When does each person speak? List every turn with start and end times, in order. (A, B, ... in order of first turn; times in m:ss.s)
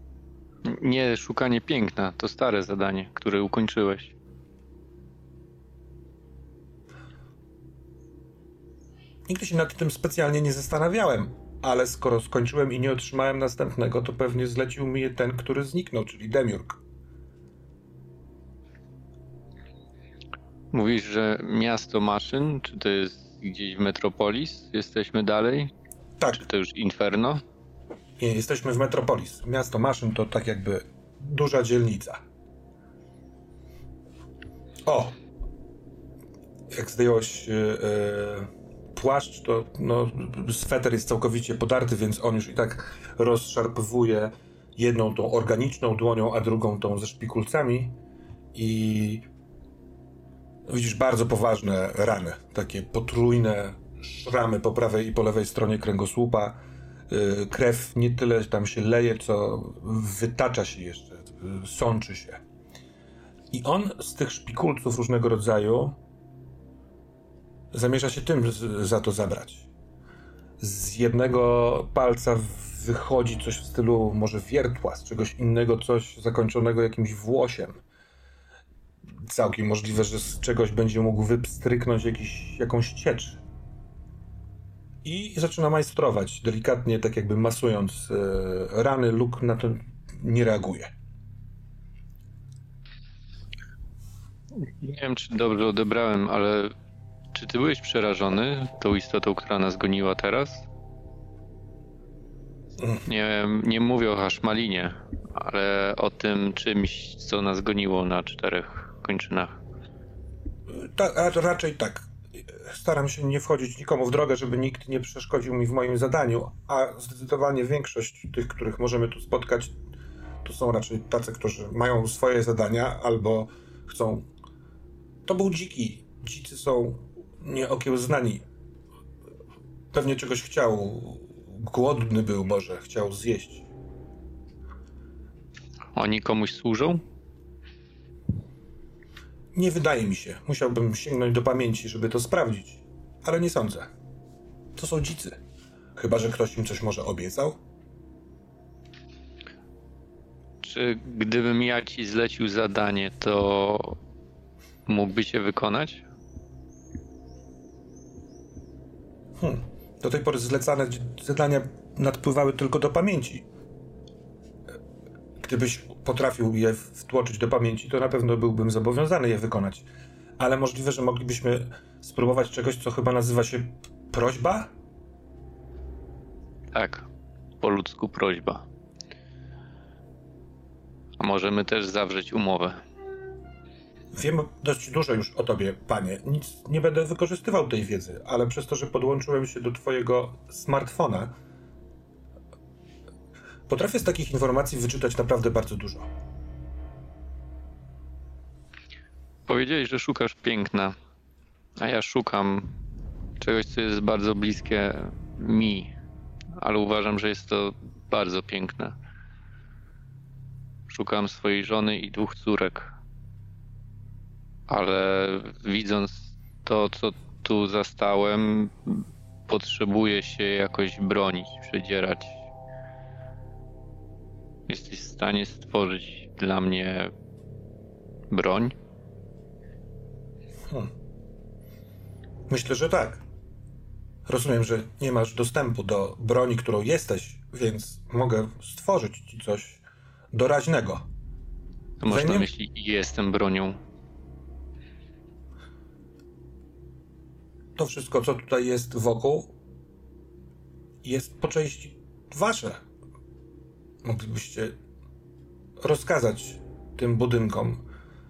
0:00.6-0:04.1 A
0:09.3-0:16.8 B
0:20.7-0:25.7 A
0:26.3-0:27.4 A
0:28.2-0:32.2 B
0:34.8-0:35.2 B
0:36.7-0:48.0 B
0:48.5-0:49.2 B
0:50.7-1:02.4 B
1:03.5-1:06.0 B
1:07.7-1:09.7 B
1:10.6-1:17.8 B
1:19.2-1:23.4 B
1:25.0-1:30.9 B
1:34.5-1:36.7 A
1:37.3-1:40.6 A
1:43.0-1:49.6 A
1:50.7-1:59.8 B
2:00.4-2:04.3 B
2:05.2-2:08.4 B
2:09.9-2:13.7 B
2:15.9-2:17.0 A
2:19.5-2:23.9 B
2:24.8-2:25.4 B
2:26.0-2:27.6 B
2:30.6-2:34.0 A
2:34.8-2:36.0 A
2:39.4-2:43.4 B
2:45.4-2:49.8 B
2:50.4-2:54.7 B
2:56.7-2:57.1 A
2:57.6-2:58.6 A
3:01.2-3:02.8 A
3:04.1-3:11.4 B
3:13.7-3:16.1 B
3:19.5-3:20.9 A
3:21.8-3:22.7 A
3:23.4-3:25.9 A
3:26.6-3:28.9 A
3:30.9-3:32.9 A
3:34.7-3:42.4 A
3:44.7-3:47.1 A
3:48.3-3:48.7 A
3:52.5-3:53.2 B
3:54.2-4:01.0 B
4:02.0-4:03.8 A
4:02.1-4:02.5 B
4:07.8-4:09.5 B
4:11.0-4:12.8 B
4:14.0-4:14.8 B
4:15.8-4:17.8 B